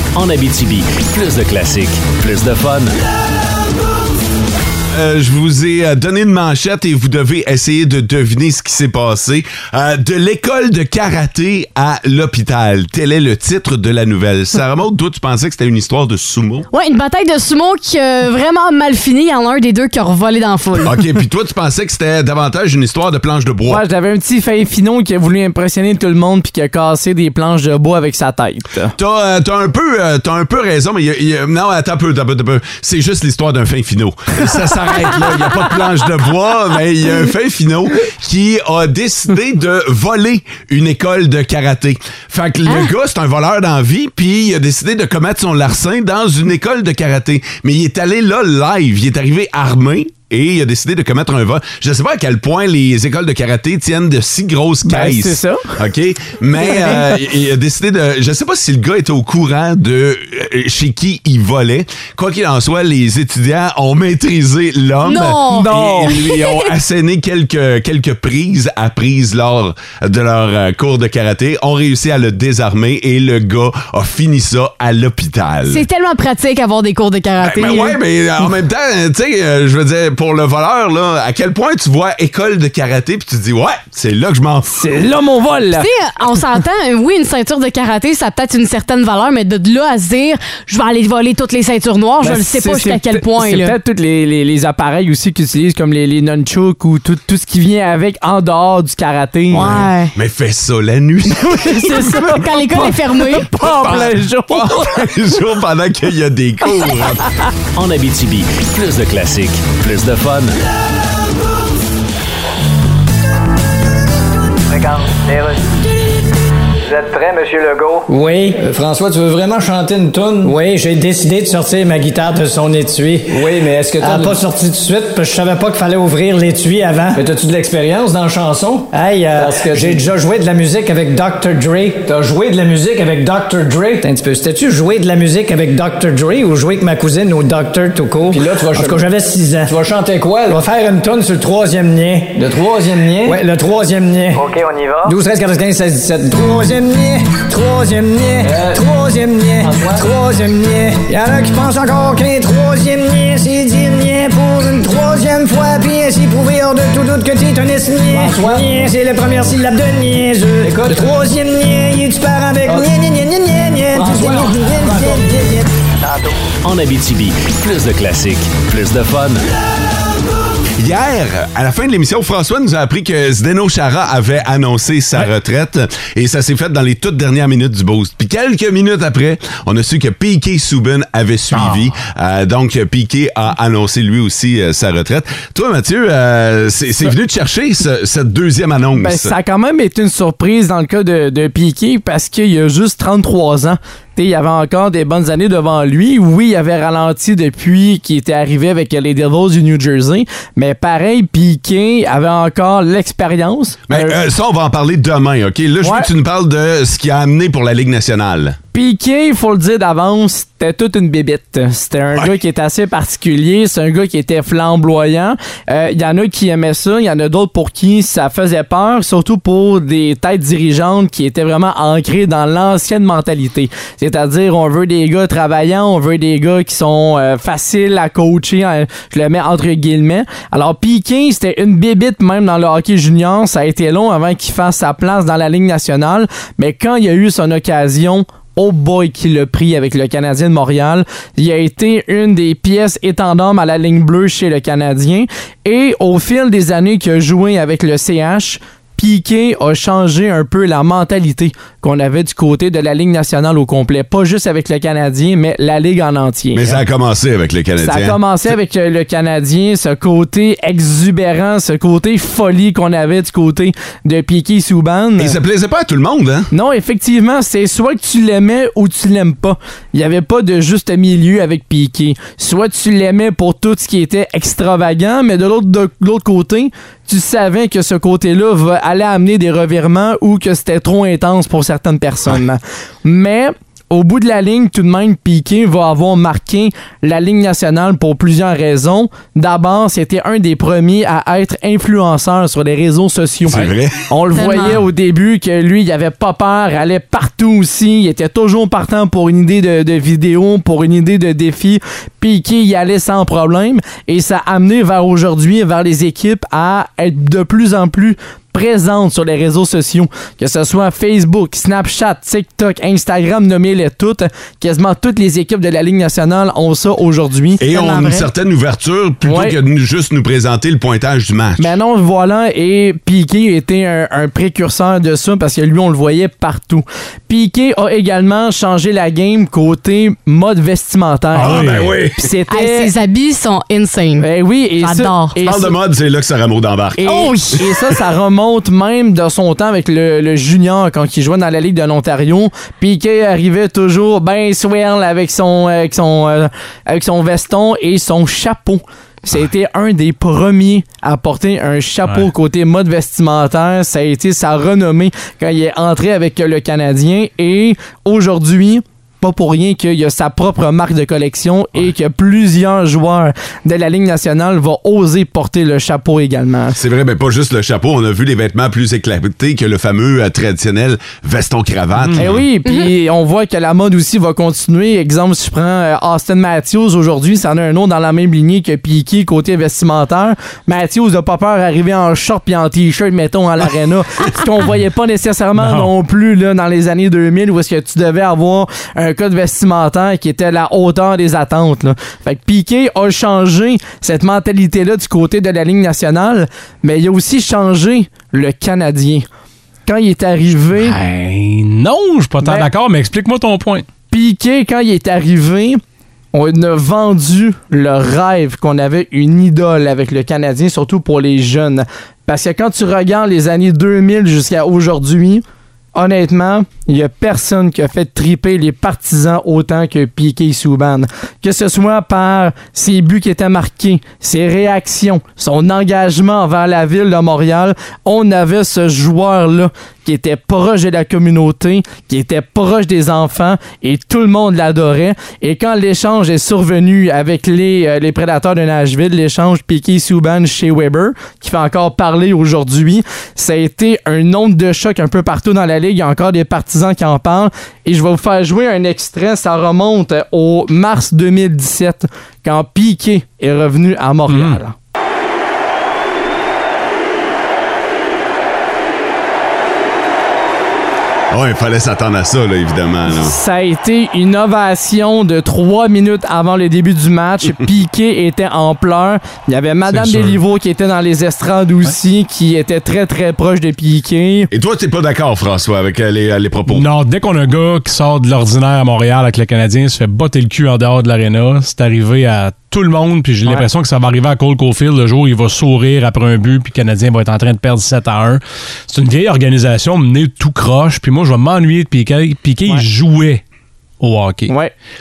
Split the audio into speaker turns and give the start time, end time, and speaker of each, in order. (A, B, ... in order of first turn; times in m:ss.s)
0:00.1-0:03.0 A
0:04.9-0:16.6 B
0:16.7-0:21.0 C
0:20.8-0:23.8 B
0:23.6-0:29.0 D
0:29.0-1:15.8 B
0:54.8-0:55.7 D
1:05.0-1:06.7 C
1:05.5-1:06.2 D
1:15.6-1:18.0 C
1:17.4-1:25.0 B
1:24.7-1:25.9 D
1:25.7-1:33.8 C
1:32.2-1:39.8 D
1:39.5-1:40.1 C
1:39.6-1:42.4 B
1:41.4-1:45.0 D
1:41.8-1:43.5 C
1:43.6-1:47.3 B
1:47.8-1:50.6 A
1:54.7-1:55.5 E
1:56.9-1:58.0 E
1:58.1-1:58.6 F
1:58.6-2:00.6 E
2:00.4-2:03.4 F
2:03.3-2:04.4 E
2:04.0-2:19.7 F
2:07.1-2:10.1 E
2:18.3-2:19.0 E
2:19.7-2:20.6 E
2:20.5-2:22.4 F
2:22.4-2:23.4 E
2:23.2-2:24.5 F
2:24.3-2:25.1 E
2:25.0-2:45.7 F
2:28.4-2:28.8 E
2:29.6-2:30.1 E
2:38.1-2:38.7 E
2:40.6-2:41.1 E
2:43.9-2:45.3 E
2:46.6-2:49.4 A
2:50.8-3:09.3 B
3:08.9-3:24.2 D
3:23.9-3:28.6 B
3:25.8-3:26.1 D
3:28.7-4:16.8 D
4:16.5-4:18.2 B
4:17.8-4:25.4 D
4:25.2-4:26.5 B
4:26.5-5:17.6 D
4:53.5-4:54.0 B
4:54.3-4:54.8 C
5:17.6-5:21.7 B
5:17.7-5:18.3 C
5:19.2-5:19.6 D
5:21.6-5:32.9 D
5:31.3-5:32.0 G
5:31.4-5:32.2 B
5:32.5-5:34.3 C
5:34.2-5:35.8 D
5:34.8-5:35.4 C
5:35.4-5:37.3 B
5:37.0-6:06.8 D
5:37.1-5:37.6 C
6:06.7-6:12.4 B
6:12.2-6:39.3 D
6:12.6-6:12.9 C
6:25.6-6:25.9 G
6:39.8-6:41.0 D
6:40.8-6:43.8 G
6:42.4-6:42.7 D
6:44.1-6:45.8 D
6:46.3-6:55.4 D
6:55.9-7:34.7 D
7:34.3-7:34.6 G
7:41.3-7:43.4 B
7:43.1-7:54.5 D
7:49.9-7:50.4 G
7:54.5-7:56.9 B
7:56.7-8:13.4 G
8:14.0-8:14.5 G
8:14.5-8:14.7 D